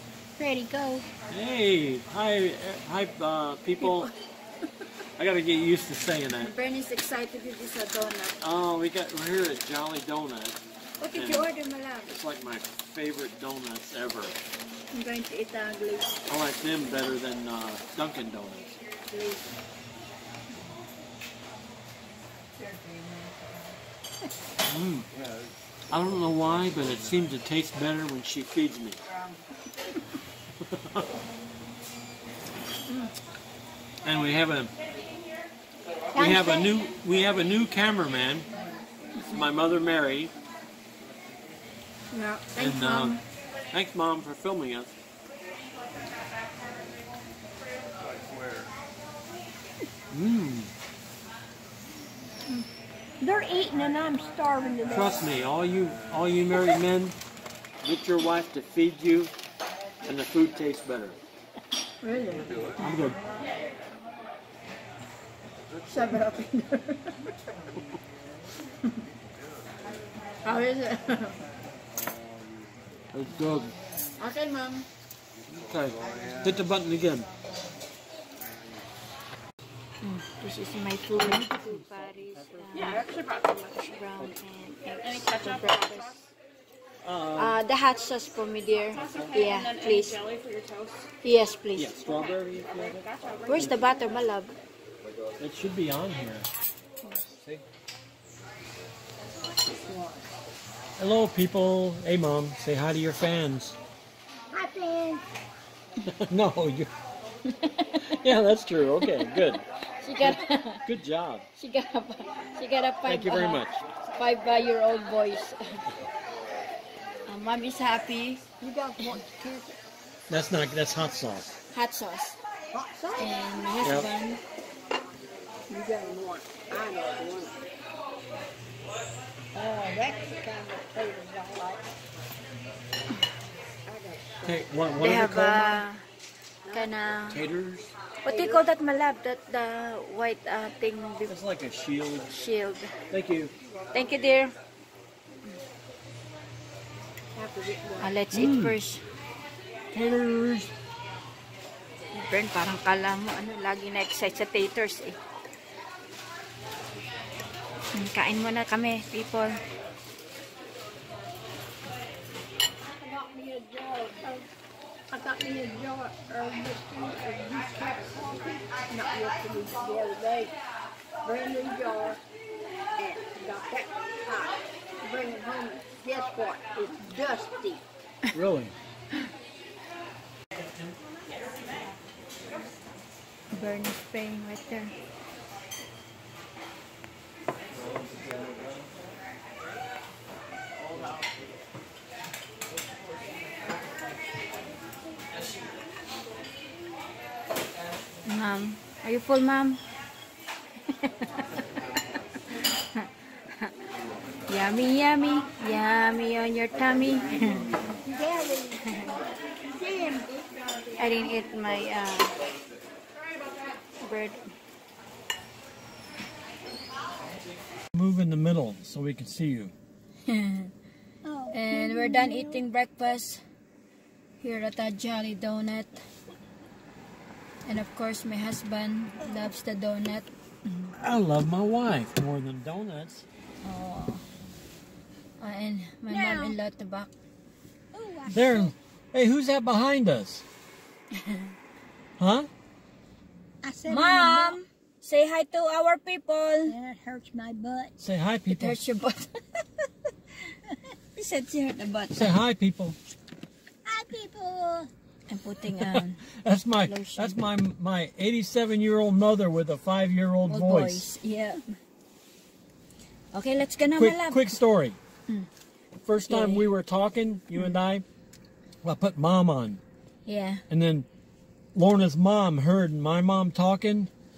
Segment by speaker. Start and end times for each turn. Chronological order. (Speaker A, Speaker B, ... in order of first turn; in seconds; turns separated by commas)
Speaker A: 0.4-1.1, Speaker B: 1.3-4.1, Speaker C: 3.8-4.1, Speaker B: 5.2-6.5, Speaker C: 6.4-8.4, Speaker B: 8.4-10.6, Speaker C: 11.0-12.1, Speaker B: 11.1-11.5, Speaker B: 12.1-14.4, Speaker C: 14.9-16.1, Speaker B: 16.3-18.8, Speaker A: 22.6-23.8, Speaker B: 24.6-25.1, Speaker B: 25.9-29.0, Speaker B: 30.6-31.1, Speaker B: 34.0-34.7, Speaker A: 36.1-36.8, Speaker B: 36.1-38.5, Speaker B: 39.3-40.3, Speaker C: 42.1-43.2, Speaker B: 42.6-45.0, Speaker B: 50.1-50.7, Speaker A: 53.2-55.3, Speaker B: 54.9-57.2, Speaker B: 57.8-59.3, Speaker B: 60.0-61.2, Speaker C: 62.0-62.5, Speaker B: 62.8-63.2, Speaker C: 65.9-67.2, Speaker C: 70.4-71.4, Speaker B: 73.1-73.8, Speaker C: 74.2-74.9, Speaker B: 75.5-77.3, Speaker C: 80.0-83.1, Speaker B: 81.1-82.9, Speaker A: 83.0-83.7, Speaker C: 83.8-86.2, Speaker B: 87.0-87.6, Speaker C: 87.4-90.3, Speaker B: 89.1-89.5, Speaker A: 90.3-90.9, Speaker C: 91.2-91.9, Speaker B: 91.8-93.8, Speaker C: 93.5-94.5, Speaker B: 95.4-96.5, Speaker A: 99.7-100.3, Speaker B: 101.0-103.8, Speaker A: 104.5-105.2, Speaker B: 106.1-106.9, Speaker C: 107.5-108.1, Speaker B: 108.0-109.7, Speaker C: 109.0-110.8, Speaker B: 110.2-111.5, Speaker C: 111.6-113.7, Speaker B: 113.1-113.8, Speaker C: 114.2-115.8, Speaker C: 117.3-118.4, Speaker A: 118.6-119.8, Speaker B: 120.3-121.6, Speaker C: 121.7-122.4, Speaker A: 122.7-123.5, Speaker C: 123.2-124.4, Speaker B: 123.8-124.1, Speaker A: 125.7-127.6, Speaker A: 129.5-131.9, Speaker A: 133.9-134.7, Speaker B: 134.4-135.9, Speaker C: 135.0-136.0, Speaker C: 136.7-137.4, Speaker B: 137.3-137.9, Speaker C: 138.2-141.3, Speaker A: 138.3-138.6, Speaker B: 141.2-142.3, Speaker C: 142.3-142.9, Speaker B: 143.1-143.5, Speaker C: 143.9-144.5, Speaker A: 147.3-148.2, Speaker C: 148.0-149.0, Speaker B: 148.3-148.8, Speaker B: 149.9-150.7, Speaker C: 152.1-155.2, Speaker C: 157.9-159.6, Speaker A: 162.8-164.5, Speaker A: 165.1-170.6, Speaker A: 171.2-172.2, Speaker A: 173.0-177.8, Speaker B: 178.3-178.8, Speaker C: 183.5-184.9, Speaker C: 198.2-199.8, Speaker C: 201.1-201.4, Speaker C: 204.5-207.7, Speaker A: 208.0-211.4, Speaker C: 211.0-212.4, Speaker C: 214.0-214.4, Speaker B: 217.9-219.7, Speaker C: 220.3-220.7, Speaker A: 221.2-222.7, Speaker C: 221.5-223.4, Speaker C: 224.4-226.0, Speaker C: 227.7-230.9, Speaker A: 229.2-229.5, Speaker B: 231.0-233.3, Speaker C: 233.6-234.2, Speaker C: 235.4-237.1, Speaker A: 236.1-236.6, Speaker A: 237.9-238.8, Speaker B: 238.3-240.4, Speaker C: 241.1-241.5, Speaker B: 242.2-242.5, Speaker A: 243.6-244.6, Speaker C: 243.9-246.8, Speaker A: 246.7-247.9, Speaker B: 248.0-248.8, Speaker C: 248.5-249.6, Speaker C: 251.2-252.3, Speaker B: 252.1-253.0, Speaker A: 253.8-254.9, Speaker C: 255.3-256.2, Speaker B: 255.8-261.1, Speaker C: 256.9-257.4, Speaker C: 260.4-261.6, Speaker C: 263.3-264.6, Speaker B: 263.9-265.0, Speaker B: 266.0-268.1, Speaker C: 266.3-266.6, Speaker B: 268.8-269.8, Speaker C: 270.3-270.6, Speaker B: 270.7-271.1, Speaker B: 271.7-274.1